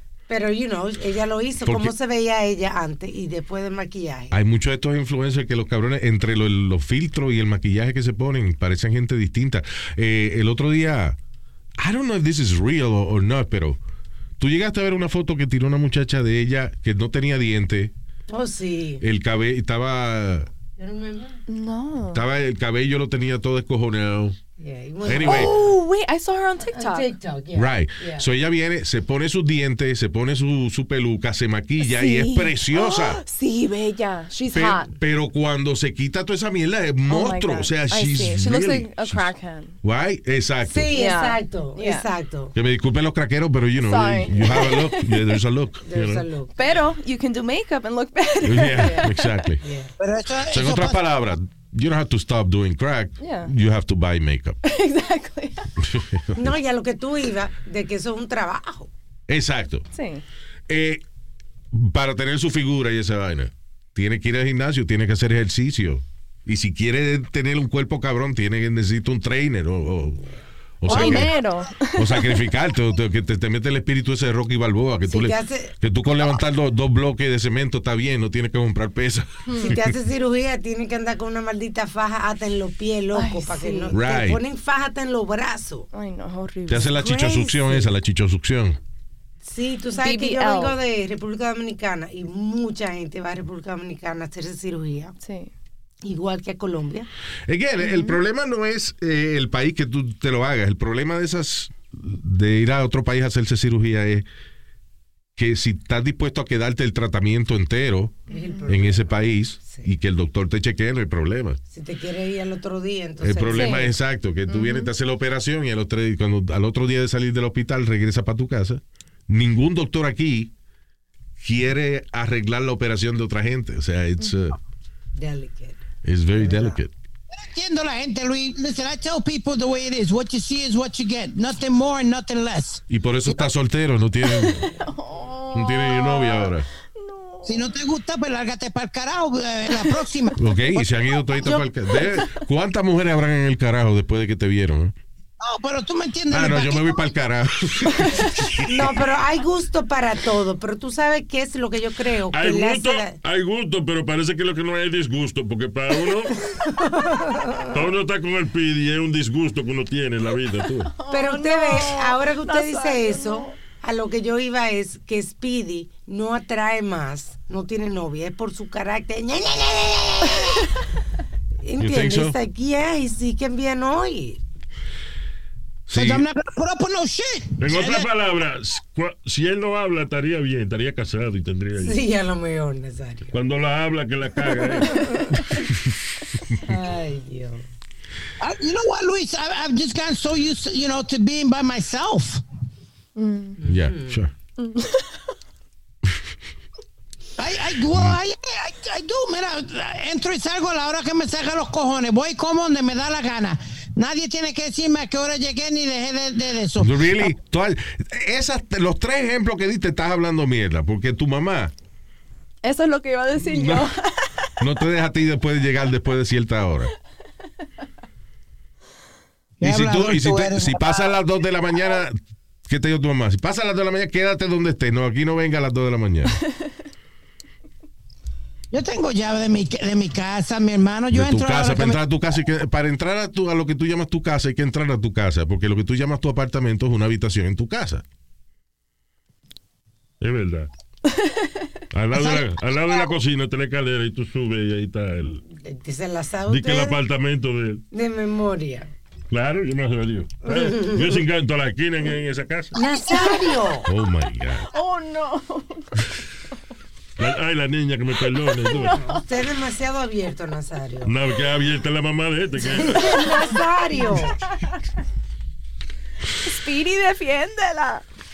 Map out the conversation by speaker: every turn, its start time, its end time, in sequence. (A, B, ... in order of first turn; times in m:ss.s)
0:00.3-0:04.3 A
0:01.6-0:01.9 B
0:04.3-0:11.2 B
0:11.8-0:13.8 B
0:14.4-0:17.9 B
0:18.3-0:19.0 A
0:19.0-0:20.5 B
0:20.8-0:21.4 A
0:21.5-0:22.2 C
0:22.1-0:24.4 B
0:24.6-0:25.7 A
0:25.0-0:25.5 B
0:25.2-0:27.1 C
0:26.7-0:28.2 A
0:27.5-0:33.2 B
0:31.8-0:34.9 C
0:34.5-0:39.3 B
0:37.1-0:39.7 C
0:39.8-0:40.9 B
0:40.6-0:42.5 A
0:40.9-0:42.1 C
0:42.5-0:46.2 B
0:43.8-0:45.4 C
0:45.9-0:46.5 A
0:46.6-0:49.5 C
0:48.4-0:49.6 B
0:49.6-0:49.9 A
0:50.0-0:51.0 D
0:50.5-0:54.6 B
0:53.2-0:53.5 C
0:54.6-0:55.7 C
0:55.8-0:56.5 B
0:56.4-0:58.9 A
0:59.3-0:59.8 B
0:59.9-1:00.2 C
1:00.7-1:01.0 B
1:01.7-1:10.3 B
1:10.8-1:11.3 B
1:10.8-1:12.3 C
1:10.9-1:11.3 A
1:11.9-1:19.9 B
1:15.1-1:15.7 A
1:19.5-1:19.7 C
1:19.6-1:25.9 A
1:23.1-1:23.9 C
1:23.9-1:24.4 B
1:25.9-1:26.9 C
1:26.7-1:28.8 B
1:26.7-1:27.9 A
1:29.4-1:35.1 A
1:30.0-1:30.8 C
1:35.2-1:35.5 C
1:36.0-1:37.1 A
1:37.5-1:44.2 B
1:37.8-1:38.2 C
1:45.4-1:51.6 B
1:48.3-1:49.9 A
1:48.3-1:48.7 C
1:51.7-1:53.9 A
1:53.2-2:00.5 B
1:53.5-1:53.9 C
1:54.5-1:54.9 C
2:01.4-2:04.6 B
2:05.1-2:05.8 A
2:06.0-2:06.9 B
2:06.4-2:06.8 A
2:07.3-2:13.4 D
2:12.9-2:14.6 B
2:14.3-2:17.7 C
2:15.5-2:16.6 B
2:17.4-2:20.9 D
2:20.4-2:24.9 B
2:22.0-2:22.4 C
2:25.4-2:27.0 D
2:26.3-2:29.0 B
2:28.6-2:33.2 A
2:32.3-2:36.4 E
2:36.7-2:37.8 A
2:37.7-2:40.9 E
2:40.9-2:43.5 C
2:41.1-2:50.7 A
2:51.6-2:54.4 A
2:51.8-2:52.4 B
2:55.9-2:56.2 B
2:55.9-2:58.1 D
2:57.6-3:02.0 E
3:01.8-3:03.3 A
3:03.3-3:05.0 E
3:04.6-3:05.6 A
3:06.6-3:07.6 A
3:08.4-3:12.4 D
3:13.2-3:13.6 C
3:13.6-3:14.2 A
3:13.6-3:14.3 B
3:14.6-3:15.1 C
3:17.4-3:27.3 D
3:26.8-3:31.7 B
3:32.6-3:34.5 C
3:33.4-3:33.9 B
3:34.6-3:36.9 B
3:39.6-3:41.2 D
3:39.6-3:42.2 B
3:42.7-3:46.4 B
3:48.7-3:52.0 D
3:51.1-3:58.0 B
4:00.2-4:00.7 E
4:01.2-4:01.5 C
4:01.9-4:05.4 E
4:02.1-4:03.1 D
4:05.5-4:07.0 A
4:06.5-4:07.8 E
4:07.9-4:08.9 A
4:09.3-4:12.7 E
4:10.4-4:11.2 A
4:12.7-4:13.9 A
4:13.8-4:14.7 B
4:14.7-4:16.0 C
4:17.2-4:19.0 E
4:18.6-4:19.2 C
4:18.9-4:21.1 A
4:21.0-4:23.4 E
4:22.6-4:24.4 A
4:24.5-4:24.8 C
4:26.4-4:28.0 C